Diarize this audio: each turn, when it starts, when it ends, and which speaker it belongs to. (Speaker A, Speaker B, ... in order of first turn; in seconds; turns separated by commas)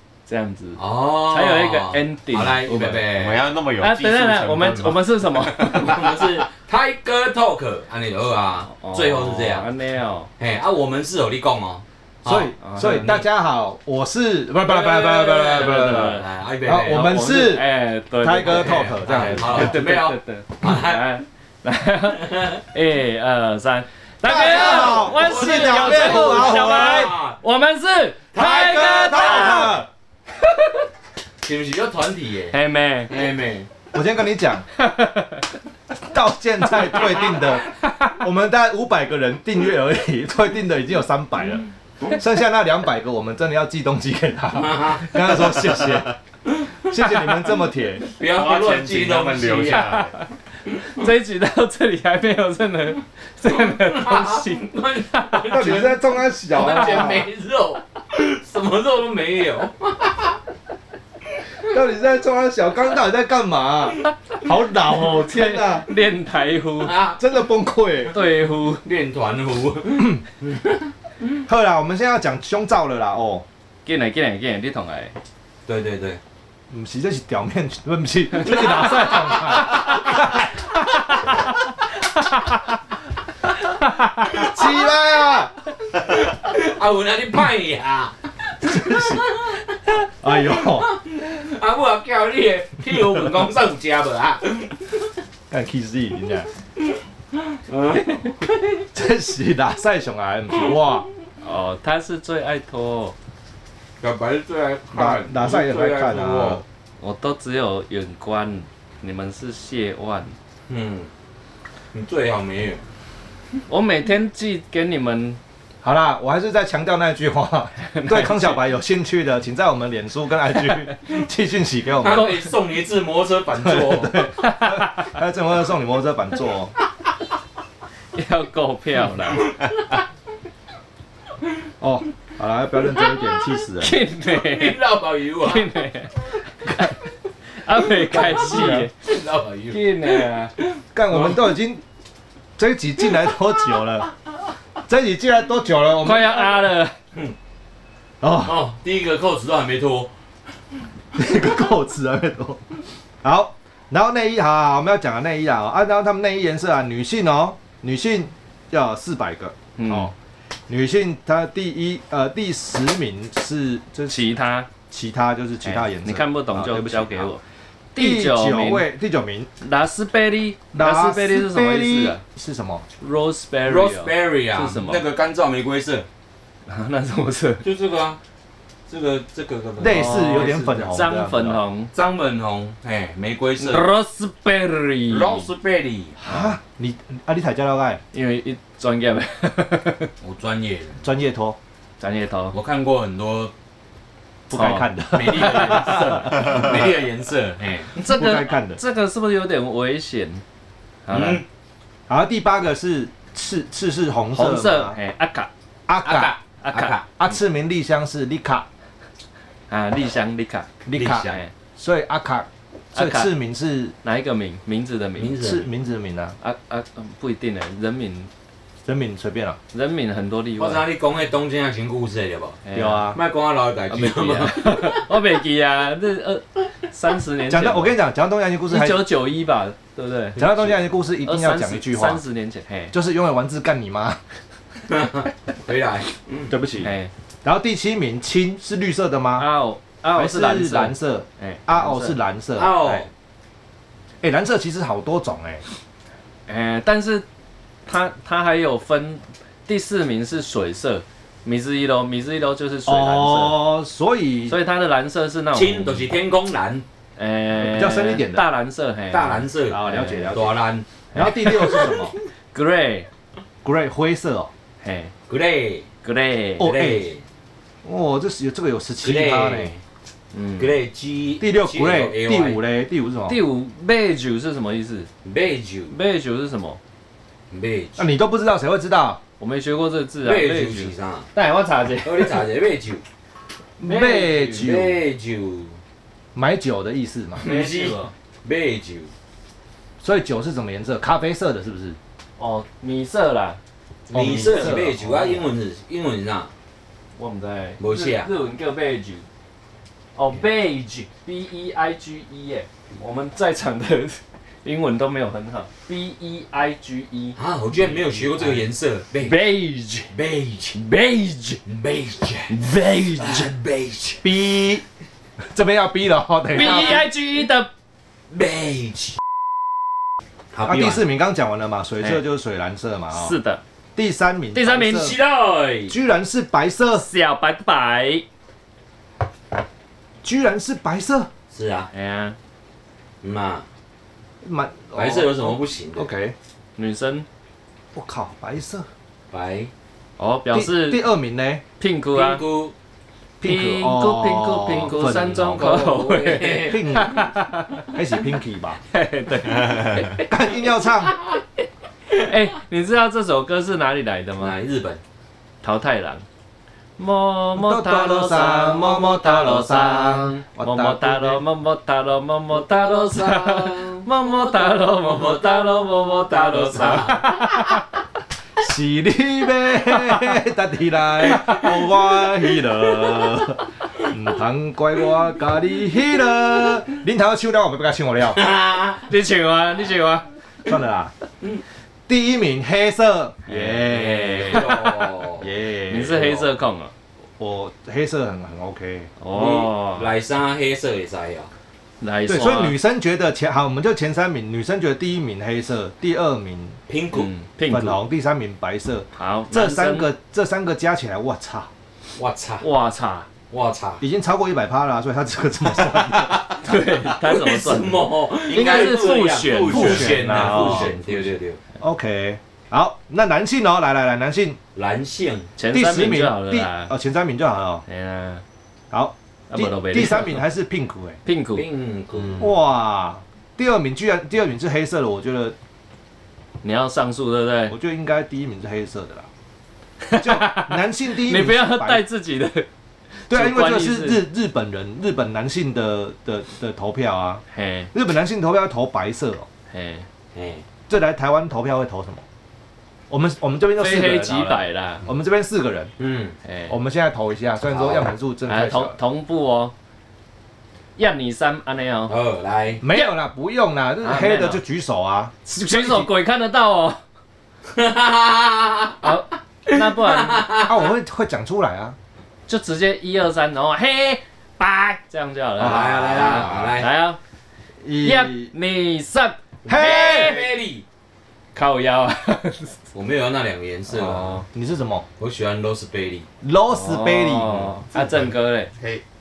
Speaker A: 0.3-3.1, Speaker B: 0.8-3.4, Speaker C: 3.1-5.0, Speaker A: 3.8-6.3, Speaker B: 5.5-9.7, Speaker A: 8.7-10.3, Speaker B: 10.4-13.2, Speaker D: 12.2-17.6, Speaker A: 12.6-13.2, Speaker A: 14.7-16.2, Speaker B: 14.9-17.1, Speaker A: 16.9-29.8, Speaker D: 18.2-19.8, Speaker B: 18.4-21.1, Speaker B: 22.2-22.6, Speaker D: 24.2-27.1, Speaker B: 24.3-27.4, Speaker D: 28.4-29.9, Speaker A: 30.4-30.9, Speaker B: 31.4-32.6, Speaker A: 32.5-33.1, Speaker B: 33.1-33.7, Speaker D: 33.9-34.6, Speaker A: 34.8-35.5, Speaker D: 36.0-46.1, Speaker B: 44.5-45.6, Speaker D: 46.8-48.1, Speaker B: 48.2-50.0, Speaker C: 48.2-50.2, Speaker A: 49.7-50.2, Speaker A: 50.8-55.6, Speaker B: 53.5-60.4, Speaker D: 55.5-57.3, Speaker D: 61.7-65.9, Speaker A: 65.0-67.0, Speaker B: 66.8-67.2, Speaker D: 67.1-68.1, Speaker A: 68.1-68.8, Speaker B: 68.8-70.9, Speaker D: 71.5-73.4, Speaker A: 73.9-75.1, Speaker B: 75.7-76.2, Speaker D: 76.7-81.5, Speaker A: 78.5-78.8, Speaker B: 79.5-79.8, Speaker D: 84.2-85.5, Speaker B: 85.9-95.1, Speaker D: 88.6-89.2, Speaker D: 90.2-90.9, Speaker D: 95.5-96.5, Speaker B: 97.3-98.9, Speaker D: 98.9-101.1, Speaker A: 101.4-103.1, Speaker B: 104.0-106.6, Speaker D: 104.9-106.6, Speaker A: 107.0-110.3, Speaker B: 110.7-111.1, Speaker B: 111.9-112.8, Speaker A: 113.7-115.4, Speaker D: 115.8-122.3, Speaker A: 117.8-118.6, Speaker B: 122.0-124.3, Speaker D: 123.6-126.7, Speaker A: 124.4-125.1, Speaker A: 128.1-129.5, Speaker B: 129.3-129.9, Speaker D: 131.8-134.0, Speaker A: 133.8-134.8, Speaker B: 134.2-135.7, Speaker A: 135.4-137.0, Speaker A: 137.5-138.9, Speaker B: 138.0-140.6, Speaker D: 138.3-138.9, Speaker A: 139.7-140.5, Speaker D: 140.9-141.8, Speaker D: 142.6-144.1, Speaker D: 144.9-146.5, Speaker A: 146.0-146.9, Speaker D: 148.2-148.6, Speaker B: 148.4-150.1, Speaker D: 151.1-152.6, Speaker D: 153.2-160.1, Speaker A: 159.8-160.1, Speaker D: 160.7-164.3, Speaker A: 164.1-164.7, Speaker D: 164.9-167.3, Speaker A: 165.6-167.4, Speaker A: 167.9-168.9, Speaker D: 167.9-169.5, Speaker A: 169.6-172.2, Speaker D: 170.7-172.8, Speaker A: 173.0-175.0, Speaker B: 173.7-176.1, Speaker A: 176.7-177.6, Speaker B: 177.6-178.2, Speaker B: 178.9-180.2, Speaker D: 179.8-181.6, Speaker A: 179.8-181.9, Speaker B: 181.9-183.9, Speaker A: 183.6-185.5, Speaker B: 185.1-186.2, Speaker D: 186.2-188.0, Speaker A: 188.1-190.1, Speaker B: 190.2-191.0, Speaker D: 191.0-191.6, Speaker A: 192.0-192.5, Speaker B: 192.5-193.5, Speaker D: 194.5-196.7, Speaker A: 194.5-196.6, Speaker B: 195.1-197.9, Speaker A: 198.0-200.4, Speaker D: 198.0-198.8, Speaker A: 201.1-201.4, Speaker B: 201.1-201.4, Speaker D: 202.1-205.0, Speaker A: 204.3-205.5, Speaker D: 205.9-208.7, Speaker B: 206.0-207.0, Speaker A: 206.6-207.0, Speaker A: 209.7-210.7, Speaker D: 210.8-214.0, Speaker B: 210.9-211.4, Speaker A: 212.9-213.3, Speaker A: 214.0-215.4, Speaker B: 215.2-215.7, Speaker D: 215.4-216.4, Speaker A: 216.4-218.3, Speaker D: 218.9-219.6, Speaker A: 219.7-220.8, Speaker B: 220.6-222.6, Speaker A: 222.6-223.2, Speaker D: 222.7-223.2, Speaker B: 223.1-225.1, Speaker A: 223.9-228.0, Speaker D: 227.5-229.1, Speaker A: 228.7-232.9, Speaker D: 230.4-232.2, Speaker D: 232.9-234.2, Speaker B: 234.9-236.5, Speaker D: 236.5-236.9, Speaker A: 236.8-237.1, Speaker D: 237.4-239.5, Speaker A: 239.4-242.2, Speaker D: 240.1-243.1, Speaker B: 242.6-243.1, Speaker D: 244.2-245.6, Speaker A: 246.5-247.2, Speaker A: 247.9-253.6, Speaker D: 252.9-254.6, Speaker A: 254.5-256.1, Speaker B: 255.5-256.9, Speaker A: 257.2-260.4, Speaker D: 257.5-258.4, Speaker B: 259.1-260.9, Speaker D: 259.7-260.6, Speaker A: 261.1-261.8, Speaker D: 261.1-262.1, Speaker B: 261.5-262.0, Speaker A: 262.5-263.1, Speaker D: 263.6-264.5, Speaker A: 264.8-265.1, Speaker B: 265.3-265.9, Speaker A: 266.0-266.7, Speaker D: 266.6-267.1, Speaker B: 266.6-267.2, Speaker D: 267.8-269.7, Speaker B: 269.0-269.8, Speaker A: 270.3-270.7, Speaker B: 270.6-272.6, Speaker D: 271.4-273.4, Speaker A: 273.3-275.1, Speaker B: 275.2-276.0, Speaker A: 275.9-276.8, Speaker B: 277.5-278.1, Speaker D: 278.0-279.2, Speaker A: 279.4-282.4, Speaker B: 280.2-281.3, Speaker B: 282.0-283.0, Speaker D: 283.8-285.0, Speaker B: 283.9-285.8, Speaker D: 286.4-287.6, Speaker B: 287.4-289.1, Speaker A: 287.4-288.1, Speaker D: 290.0-292.0, Speaker A: 292.4-293.6, Speaker B: 294.1-296.5, Speaker D: 294.1-295.4, Speaker A: 294.2-294.8, Speaker A: 297.2-299.3, Speaker B: 297.8-298.3, Speaker A: 300.1-308.5, Speaker B: 307.4-309.5, Speaker A: 309.2-310.1, Speaker B: 310.1-310.8, Speaker A: 310.8-311.6, Speaker B: 311.6-312.6, Speaker A: 312.5-313.5, Speaker B: 313.2-314.3, Speaker D: 314.2-314.9, Speaker D: 315.4-317.1, Speaker A: 316.5-317.7, Speaker B: 316.6-317.0, Speaker B: 318.3-319.2, Speaker B: 320.5-321.0, Speaker D: 320.6-323.4, Speaker A: 323.1-323.6, Speaker D: 324.0-325.2, Speaker A: 324.5-325.1, Speaker B: 324.9-326.0, Speaker D: 325.9-327.1, Speaker A: 326.9-328.2, Speaker D: 330.2-331.3, Speaker B: 331.5-331.9, Speaker A: 331.9-332.4, Speaker B: 333.2-333.6, Speaker D: 334.4-336.4, Speaker B: 334.9-336.1, Speaker A: 336.8-337.3, Speaker D: 337.9-338.9, Speaker B: 339.3-339.7, Speaker A: 340.2-341.0, Speaker D: 340.5-341.6, Speaker A: 341.8-342.4, Speaker B: 342.1-342.7, Speaker D: 343.4-345.6, Speaker A: 343.4-347.9, Speaker B: 344.9-347.0, Speaker D: 346.6-347.3, Speaker D: 347.9-348.8, Speaker A: 348.9-350.3, Speaker C: 349.5-350.0, Speaker D: 350.2-351.1, Speaker A: 352.1-354.5, Speaker B: 354.4-355.0, Speaker A: 355.6-356.2, Speaker A: 357.0-367.9, Speaker D: 357.6-361.4, Speaker B: 362.5-367.5, Speaker D: 368.6-378.4, Speaker B: 378.4-379.0, Speaker A: 379.1-380.3, Speaker D: 380.6-381.1, Speaker D: 382.1-384.8, Speaker A: 383.5-384.8, Speaker B: 384.1-385.5, Speaker D: 385.4-386.4, Speaker A: 385.9-386.9, Speaker D: 387.4-389.1, Speaker A: 389.2-390.1, Speaker B: 389.3-391.5, Speaker A: 392.0-392.8, Speaker D: 392.3-396.8, Speaker B: 396.9-397.3, Speaker A: 397.1-398.0, Speaker D: 397.7-401.7, Speaker A: 399.1-400.1, Speaker B: 402.2-402.6, Speaker A: 402.6-403.3, Speaker B: 403.5-404.0, Speaker D: 404.0-406.4, Speaker B: 406.1-411.6, Speaker A: 406.6-411.0, Speaker D: 408.5-408.9, Speaker D: 409.6-411.0, Speaker D: 411.8-414.6, Speaker B: 414.8-415.5, Speaker A: 415.6-416.9, Speaker D: 415.7-417.8, Speaker A: 417.9-418.4, Speaker D: 418.9-421.2, Speaker A: 419.5-420.4, Speaker A: 421.2-421.6, Speaker B: 421.5-422.5, Speaker D: 422.4-425.5, Speaker A: 426.6-427.8, Speaker D: 427.7-429.3, Speaker A: 430.0-432.7, Speaker D: 430.2-432.0, Speaker A: 433.3-434.2, Speaker D: 433.3-439.5, Speaker A: 437.5-437.9, Speaker A: 439.7-440.1, Speaker B: 440.4-440.6, Speaker D: 440.9-442.2, Speaker D: 443.1-445.9, Speaker A: 443.8-445.0, Speaker B: 446.0-446.4, Speaker A: 446.4-446.7, Speaker D: 446.7-449.0, Speaker B: 447.7-448.1, Speaker A: 448.5-449.7, Speaker A: 451.0-452.1, Speaker B: 452.1-452.8, Speaker D: 452.8-456.1, Speaker A: 454.0-454.6, Speaker A: 455.5-457.0, Speaker B: 457.7-459.1, Speaker A: 459.0-460.5, Speaker B: 459.7-460.9, Speaker D: 460.6-462.0, Speaker A: 462.5-467.2, Speaker D: 465.6-466.8, Speaker B: 465.6-466.9, Speaker D: 467.8-468.5, Speaker A: 468.0-470.5, Speaker D: 469.6-470.5, Speaker B: 469.6-470.8, Speaker A: 471.5-472.8, Speaker B: 472.9-474.4, Speaker A: 473.9-474.4, Speaker D: 474.5-475.1, Speaker B: 475.2-476.3, Speaker D: 476.4-477.7, Speaker A: 476.7-478.7, Speaker C: 477.9-479.0